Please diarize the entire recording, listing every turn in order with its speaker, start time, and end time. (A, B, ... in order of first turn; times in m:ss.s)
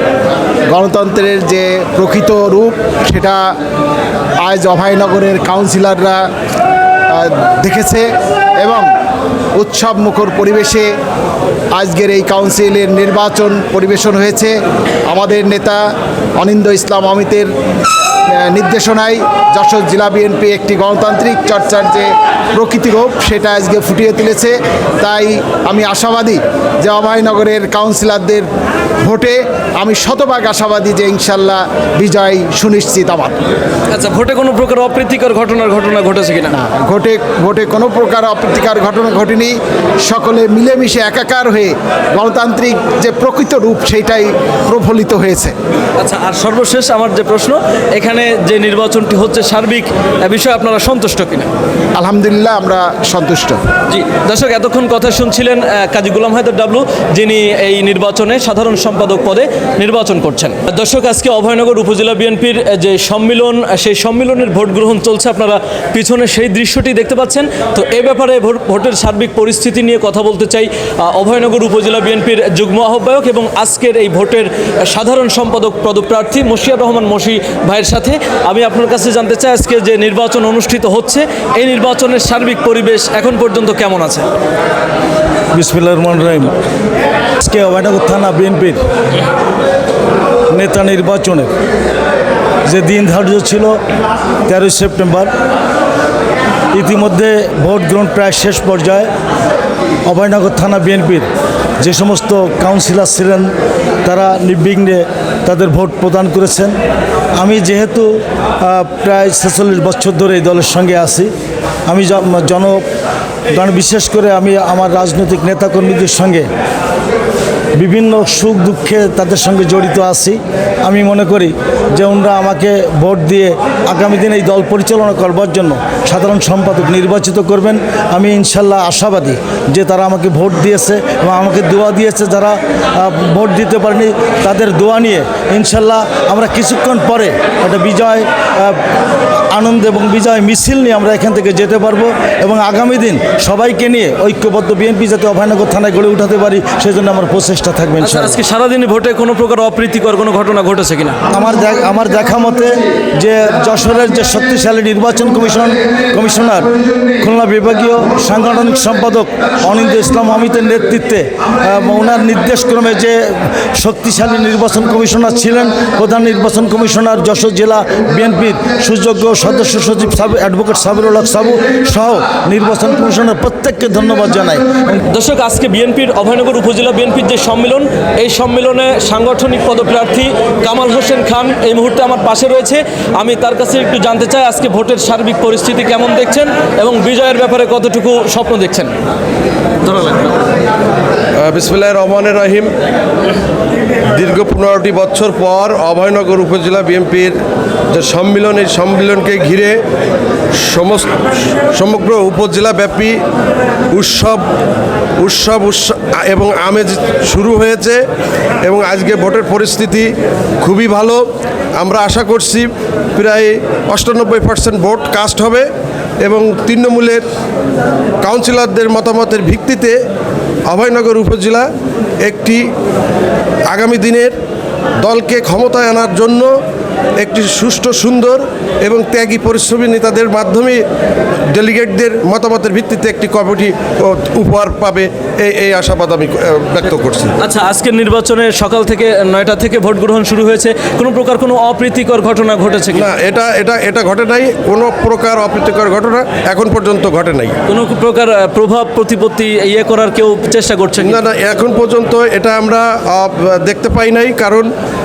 0:00.7-0:03.4 A
0:04.4-0:06.2 A
0:07.1-0:08.9 A
0:09.6-0:10.9 A
0:11.7-0:14.6 A
0:15.1-0:15.8 A
0:16.4-0:17.5 A
0:18.4-0:28.5 A
0:29.0-0:33.4 A
0:33.9-0:36.5 B
0:36.5-0:45.5 A
0:46.0-0:51.5 B
0:51.9-0:53.6 A
0:53.9-1:24.2 B
1:25.5-1:26.5 C
1:27.4-1:28.8 C
1:30.5-1:31.5 C
1:32.7-1:33.8 C
1:34.4-1:35.3 C
1:36.7-1:39.1 C
1:40.0-1:41.3 C
1:41.8-1:43.5 C
1:44.0-1:46.8 C
1:47.4-1:51.3 C
1:51.9-1:52.8 C
1:53.5-1:56.5 C
1:57.8-2:18.8 C
2:19.5-2:28.4 C
2:28.0-2:31.2 B
2:31.3-2:55.0 C
2:55.0-3:08.9 B
3:09.8-3:10.3 B
3:11.4-3:12.7 D
3:14.1-3:17.4 D
3:17.9-3:19.8 D
3:20.6-3:21.2 D
3:21.7-3:23.2 D
3:23.9-3:24.4 D
3:25.2-3:28.0 D
3:28.6-3:31.2 D
3:31.8-3:35.7 D
3:36.2-3:37.2 D
3:38.2-3:40.0 D
3:40.7-3:41.7 D
3:42.2-3:42.6 D
3:43.7-3:44.4 D
3:45.0-3:46.5 D
3:47.2-3:50.8 D
3:51.5-3:57.3 D
3:57.4-4:03.1 B
4:02.9-4:07.6 D
4:07.7-4:11.2 B
4:11.0-4:14.7 D